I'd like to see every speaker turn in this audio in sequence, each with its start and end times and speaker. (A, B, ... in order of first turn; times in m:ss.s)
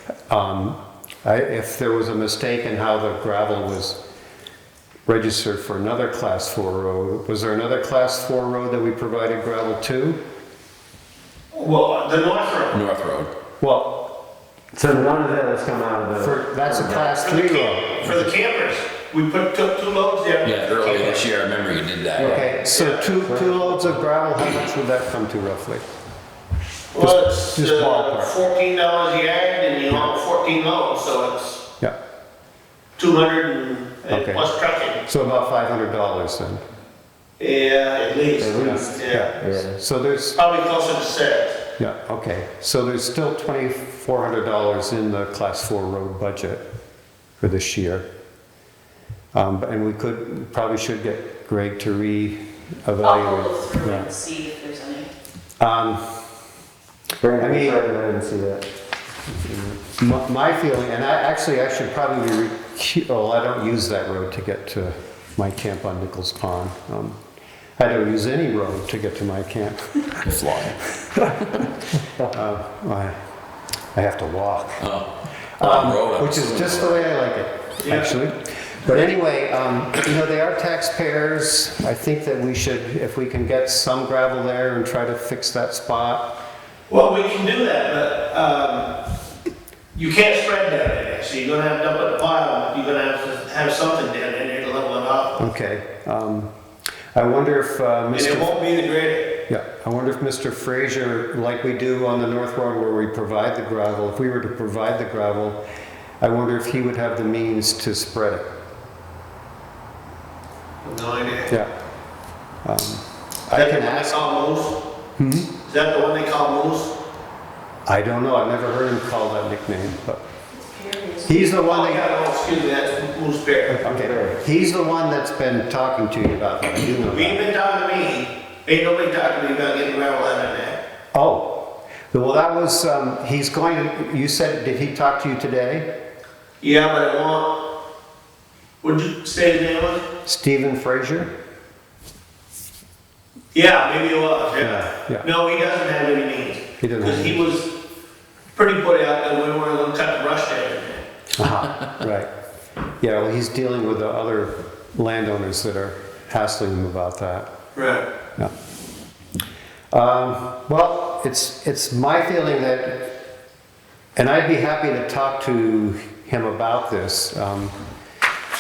0:00.3-0:04.0 A
0:05.0-0:10.2 A
0:11.5-0:12.8 B
0:12.7-0:13.3 C
0:13.6-0:14.0 A
0:14.7-0:17.0 D
0:16.2-0:18.1 A
0:16.9-0:21.3 B
0:20.4-0:22.4 C
0:22.2-0:22.6 D
0:22.2-0:25.8 A
0:22.6-0:23.1 B
0:23.2-0:24.0 D
0:26.9-0:31.6 B
0:27.0-0:28.4 A
0:33.0-0:35.0 B
0:34.1-0:34.5 A
0:35.0-0:36.6 A
0:37.4-0:39.3 B
0:38.4-0:39.8 D
0:38.6-0:40.4 A
0:40.4-0:41.6 B
0:41.8-0:46.6 A
0:47.4-0:48.1 A
0:49.3-0:54.1 A
0:53.0-0:55.1 E
0:55.6-0:56.0 A
0:57.2-0:58.6 D
0:57.4-0:57.8 A
0:59.4-1:07.2 A
1:07.8-1:10.3 A
1:10.2-1:11.6 C
1:12.2-1:13.2 A
1:13.9-1:14.9 A
1:14.8-1:17.0 C
1:15.6-1:26.4 A
1:17.8-1:18.1 B
1:26.9-1:29.0 B
1:29.9-1:35.5 B
1:35.4-1:36.5 A
1:37.1-1:38.6 A
1:38.1-1:39.3 B
1:39.5-1:45.6 A
1:46.2-1:48.5 A
1:50.8-1:51.5 B
1:52.6-1:54.2 A
1:53.5-1:54.8 B
1:55.2-1:55.5 A
1:55.6-1:56.9 B
1:57.8-2:00.2 A
2:00.6-2:01.4 E
2:01.2-2:02.1 A
2:01.6-2:03.8 B
2:03.7-2:07.4 A
2:03.8-2:04.4 D
2:07.0-2:10.8 B
2:11.1-2:15.9 A
2:16.6-2:17.6 B
2:18.8-2:20.0 B
2:20.2-2:21.3 A
2:23.5-2:27.7 B
2:24.6-2:25.2 A
2:26.8-2:27.4 A
2:28.5-2:31.0 B
2:31.4-2:32.3 A
2:33.0-2:37.5 A
2:37.7-2:38.0 B
2:39.9-2:43.2 A
2:44.2-2:47.7 A